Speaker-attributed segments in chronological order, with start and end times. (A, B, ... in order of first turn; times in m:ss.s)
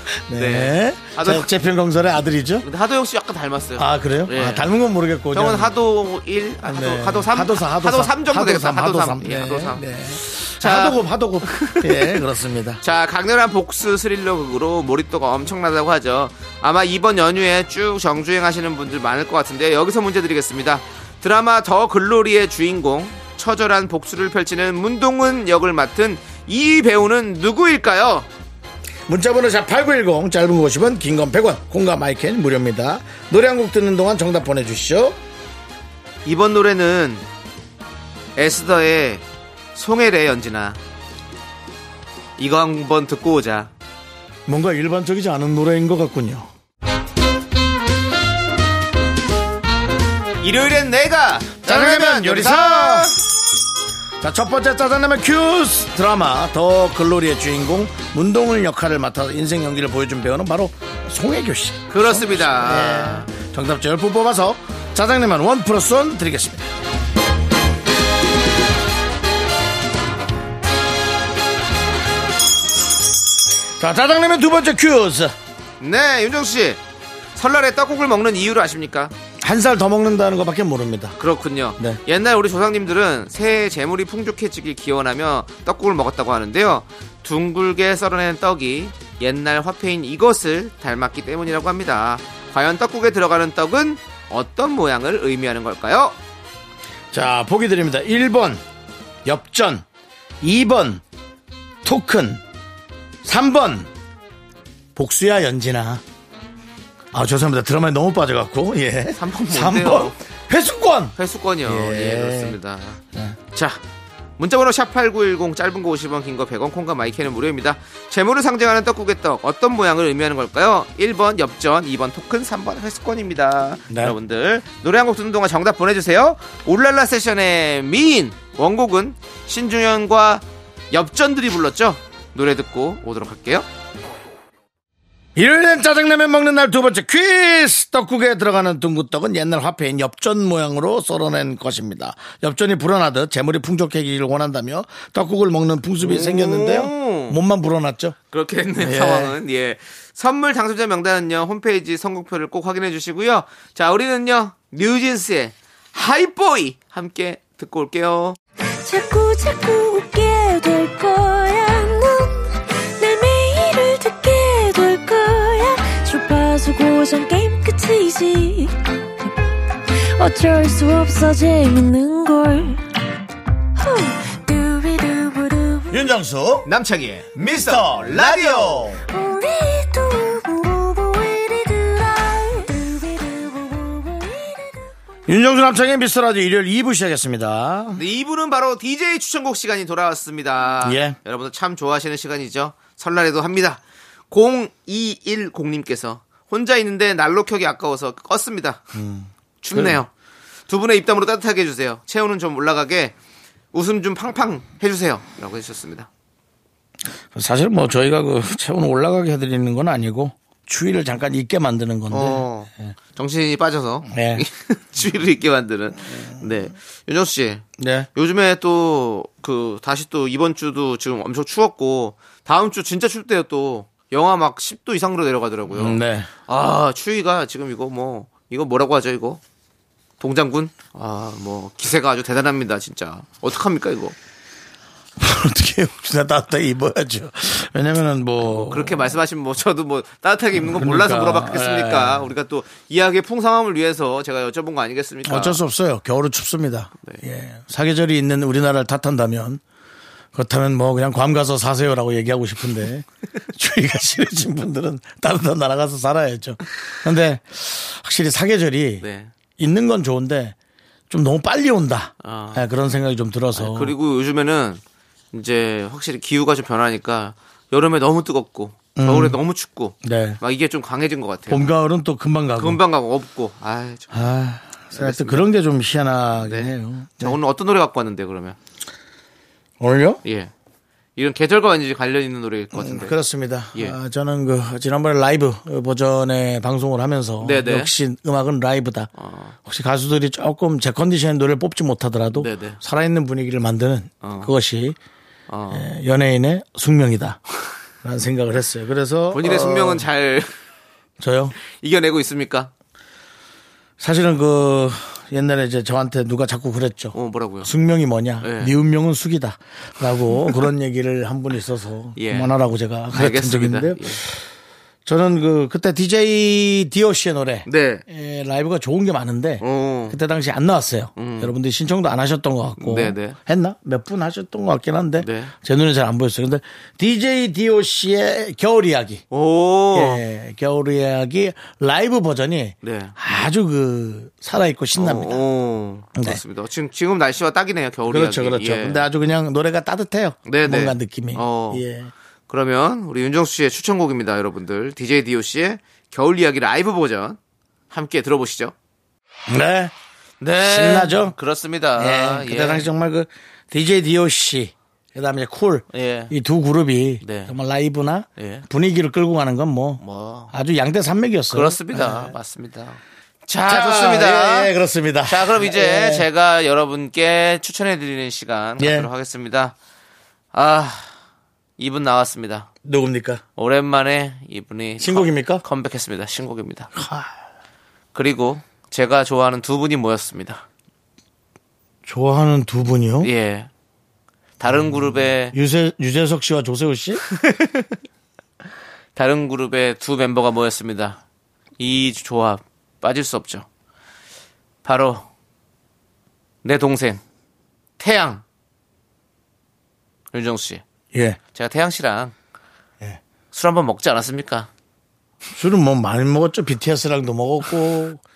0:00.3-0:02.7 A
0:00.3-0:01.5 B
0:02.6-0:04.7 B
0:03.8-0:05.7 A
0:05.3-0:12.2 B
0:06.6-0:12.8 A
0:12.8-0:28.3 B
0:29.1-0:35.2 A
0:36.3-0:37.2 B
0:38.4-0:40.8 B
0:42.4-0:43.7 B
0:44.5-0:46.5 A
0:50.4-0:53.2 B
0:51.6-0:53.1 A
0:54.2-1:06.7 A
1:01.9-1:03.3 B
1:13.8-1:15.3 A
1:15.8-1:16.8 B
1:17.4-1:19.1 B
1:19.4-1:21.2 A
1:21.2-1:36.2 B
1:37.1-1:38.6 A
1:39.2-1:39.8 A
1:40.4-1:41.0 A
1:41.8-1:42.4 A
1:43.2-1:43.9 A
1:45.0-1:46.0 A
1:47.1-1:52.6 A
1:49.2-1:50.2 B
1:51.2-1:53.0 B
1:53.1-1:53.4 A
1:53.5-1:53.8 B
1:54.4-2:13.7 B
2:03.9-2:04.2 A
2:15.4-2:28.2 A
2:26.0-2:27.4 B
2:28.3-2:38.4 B
2:28.8-2:29.3 A
2:38.8-2:49.3 C
2:49.9-2:52.8 C
2:53.8-2:56.0 C
2:55.9-2:56.7 A
2:56.6-2:59.0 B
2:57.5-2:59.0 A
2:59.1-3:04.9 C
3:05.3-3:08.0 A
3:08.0-3:18.8 B
3:10.8-3:11.2 A
3:18.9-3:20.0 A
3:19.6-3:20.1 B
3:20.7-3:23.1 B
3:23.7-3:26.1 B
3:27.3-3:32.9 A
3:32.1-3:37.6 B
3:34.1-3:34.4 A
3:37.8-3:38.1 A
3:38.2-3:49.4 B
3:45.7-3:46.3 A
3:50.2-3:54.2 B
3:55.2-3:59.2 A
3:58.4-4:05.6 B
4:00.6-4:02.3 A
4:05.3-4:09.6 A
4:10.3-4:19.0 A
4:19.0-4:19.3 B
4:19.6-4:20.6 A
4:21.1-4:23.9 A
4:22.2-4:22.7 B
4:23.5-4:24.8 B
4:25.3-4:31.7 B
4:29.0-4:29.4 A
4:30.0-4:30.4 A
4:31.5-4:32.8 A
4:32.6-4:34.3 B
4:34.1-4:37.4 A
4:34.9-4:35.5 B
4:36.4-4:38.6 B
4:39.8-4:40.2 A
4:40.2-4:40.5 B
4:41.2-4:43.2 B
4:42.7-4:49.1 A
4:47.4-4:47.9 B
4:49.2-4:49.6 B
4:49.6-4:55.0 A
4:52.4-4:52.8 B
4:54.2-4:54.5 B
4:55.5-4:55.9 B
4:55.7-4:57.4 A
4:58.0-5:00.1 A
4:59.3-5:00.5 B
5:01.2-5:01.6 A
5:01.6-5:02.7 B
5:04.0-5:14.4 A
5:07.1-5:07.7 B
5:08.4-5:08.7 B
5:12.2-5:12.5 B
5:13.1-5:14.2 B
5:15.1-5:29.2 A
5:17.7-5:18.0 B
5:19.6-5:20.2 B
5:21.2-5:21.5 B
5:22.8-5:23.4 B
5:25.2-5:25.5 B
5:29.3-5:30.2 B
5:29.9-5:35.4 A
5:32.8-5:33.2 B
5:35.0-5:39.1 B
5:36.2-5:36.4 A
5:38.1-5:42.1 A
5:40.5-5:41.8 B
5:42.5-5:47.4 B
5:47.9-5:48.7 B
5:49.5-5:49.9 A
5:50.4-5:52.9 B
5:50.6-5:51.4 A
5:52.0-6:02.3 A
5:55.9-5:56.3 B
5:57.2-5:57.5 B
5:58.4-5:58.7 B
6:00.0-6:00.5 B
6:01.5-6:04.7 B
6:03.7-6:06.3 A
6:05.3-6:09.8 B
6:08.8-6:09.1 A
6:10.5-6:11.1 B
6:11.8-6:12.7 B
6:12.8-6:13.4 A
6:13.6-6:16.9 B
6:15.0-6:15.6 A
6:17.0-6:17.3 A
6:18.1-6:20.6 B
6:22.1-6:23.3 A
6:23.2-6:23.7 B
6:24.6-6:25.6 B
6:24.6-6:27.2 A
6:27.3-6:27.9 B
6:29.2-6:31.2 B
6:31.8-6:33.7 B
6:34.8-6:35.3 B
6:36.6-6:37.2 B
6:38.0-6:38.4 B
6:40.3-6:40.8 B
6:41.1-6:41.4 A
6:41.5-6:42.4 B
6:43.5-6:44.7 B
6:45.5-6:48.2 A